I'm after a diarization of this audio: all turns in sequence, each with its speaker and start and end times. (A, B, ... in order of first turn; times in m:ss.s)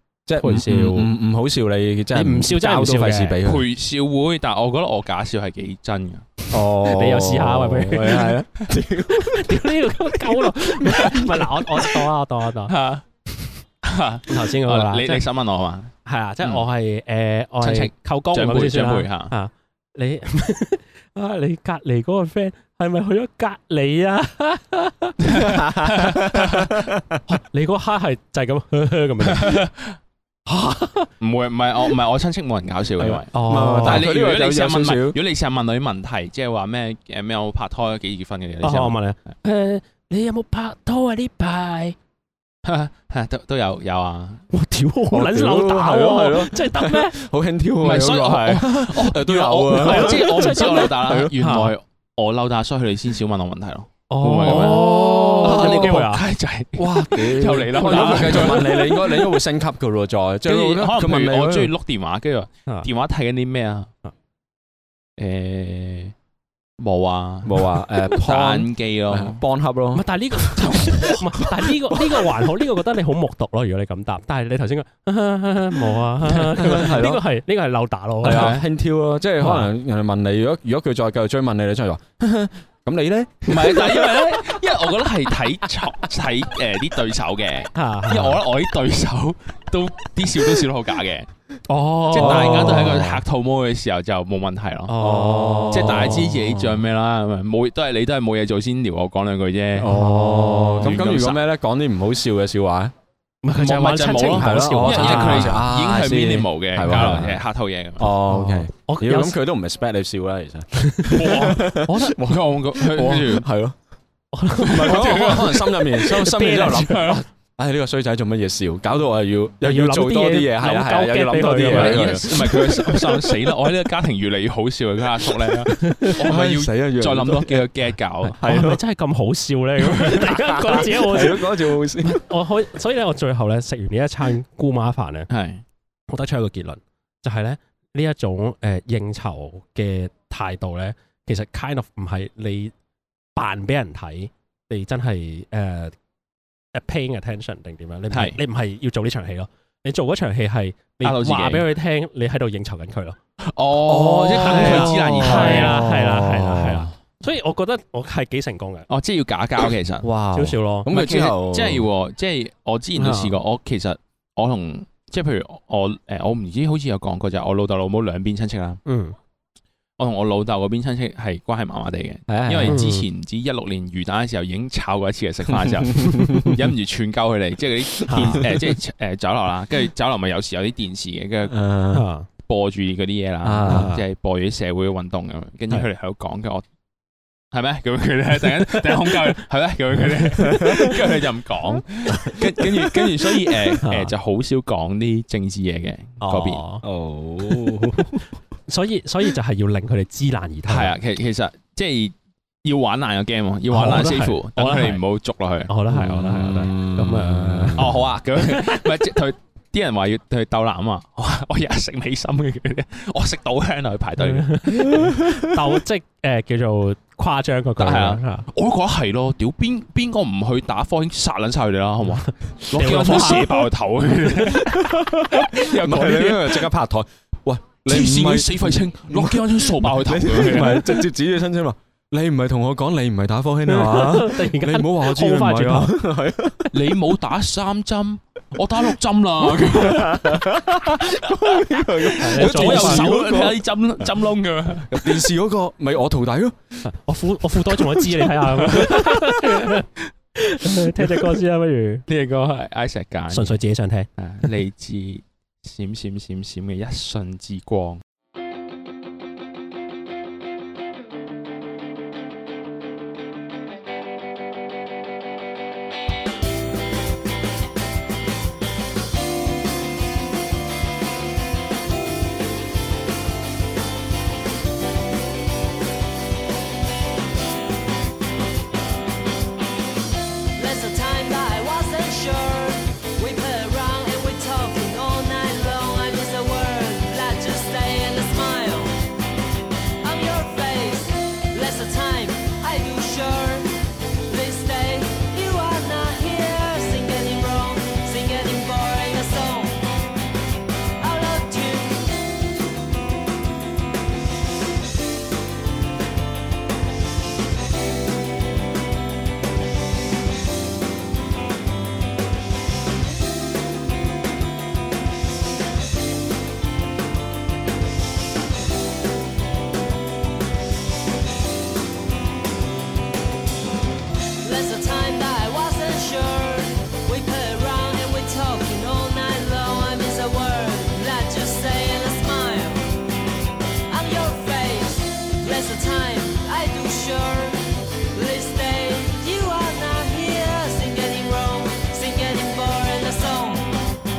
0:00.3-0:03.6 A
0:00.4-0:01.1 B
0:02.1-0:03.4 B
0:03.4-0:06.2 C
0:06.5-0:09.7 A
0:06.8-0:08.4 B
0:09.1-0:12.7 B
0:10.8-0:11.8 C
0:12.7-0:13.0 C
0:13.8-0:16.6 C
0:14.3-0:15.2 B
0:16.0-0:26.0 B
0:17.6-0:19.3 C
0:25.3-0:26.7 C
0:25.3-0:27.2 A
0:27.3-0:29.7 B
0:29.2-0:30.0 C
0:30.5-0:31.1 B
0:31.2-0:39.0 C
0:33.0-0:35.2 A
0:33.3-0:34.1 B
0:38.6-0:42.0 B
0:42.6-0:44.4 C
0:44.5-0:47.2 B
0:45.1-0:51.3 A
0:47.8-0:59.3 C
0:49.7-0:51.7 B
0:54.1-0:56.2 B
0:54.4-0:56.0 A
0:56.8-1:01.7 A
0:57.9-0:58.6 B
1:00.4-1:03.9 C
1:05.2-1:06.1 C
1:06.8-1:09.4 C
1:07.4-1:10.0 A
1:09.9-1:18.5 B
1:10.6-1:11.2 C
1:16.6-1:17.2 A
1:18.2-1:24.3 A
1:18.2-1:18.6 C
1:19.4-1:19.7 B
1:23.5-1:31.3 C
1:27.7-1:28.4 B
1:31.7-1:33.2 B
1:32.1-1:34.9 C
1:32.2-1:33.1 A
1:34.9-1:36.2 B
1:35.0-1:36.8 A
1:35.7-1:39.9 C
1:39.8-1:42.9 A
1:39.8-1:41.0 B
1:40.8-1:41.4 C
1:43.4-1:45.6 B
1:43.6-1:48.1 C
1:44.2-1:47.4 A
1:48.0-1:53.8 A
1:48.3-1:49.4 B
1:50.8-1:52.2 B
1:51.1-1:51.6 C
1:52.2-1:53.4 C
1:54.3-1:57.2 B
1:54.6-1:57.2 C
1:54.6-2:02.8 A
1:59.6-2:02.7 B
2:01.7-2:08.4 C
2:05.8-2:06.2 B
2:06.2-2:07.6 A
2:08.4-2:08.8 A
2:08.4-2:15.3 B
2:09.9-2:12.2 A
2:15.3-2:15.6 C
2:16.1-2:22.7 B
2:23.4-2:25.9 B
2:26.7-2:33.2 B
2:28.1-2:28.4 C
2:31.0-2:31.7 C
2:33.5-2:35.8 C
2:33.8-2:36.9 A
2:34.4-2:38.9 B
2:38.9-2:40.1 C
2:40.0-2:41.9 A
2:40.3-2:40.9 B
2:40.9-2:48.8 C
2:43.0-2:43.3 B
2:48.8-2:49.2 B
2:50.0-3:01.5 C
2:52.3-2:52.8 A
2:52.7-2:53.0 B
2:55.5-2:56.6 A
2:58.1-2:58.4 B
2:58.2-2:58.5 A
3:01.5-3:02.0 A
3:01.9-3:02.3 B
3:02.5-3:06.6 C
3:03.4-3:03.9 A
3:03.7-3:04.0 B
3:07.5-3:16.6 C
3:10.4-3:10.9 A
3:13.8-3:14.1 B
3:16.2-3:16.8 B
3:16.8-3:18.2 A
3:18.7-3:20.9 B
3:20.7-3:25.7 C
3:23.7-3:25.0 B
3:25.7-3:27.8 B
3:25.9-3:28.1 A
3:27.8-3:34.9 C
3:28.4-3:28.8 B
3:34.2-3:38.4 B
3:34.8-3:35.4 A
3:37.8-3:46.7 C
3:42.1-3:43.7 B
3:44.7-3:56.7 A
3:47.9-3:50.9 C
3:53.7-3:55.9 B
3:56.7-4:05.0 C
3:59.6-4:03.6 A
4:02.2-4:03.2 B
4:04.9-4:06.8 A
4:06.8-4:12.0 B
4:08.7-4:09.4 C
4:12.1-4:13.6 C
4:13.3-4:14.1 B
4:14.2-4:18.0 C
4:40.6-4:49.0 D
4:50.0-4:53.7 D
4:54.3-4:59.8 D
5:01.0-5:02.2 D
5:24.4-5:32.9 D
5:33.9-5:37.6 D
5:38.1-5:43.7 D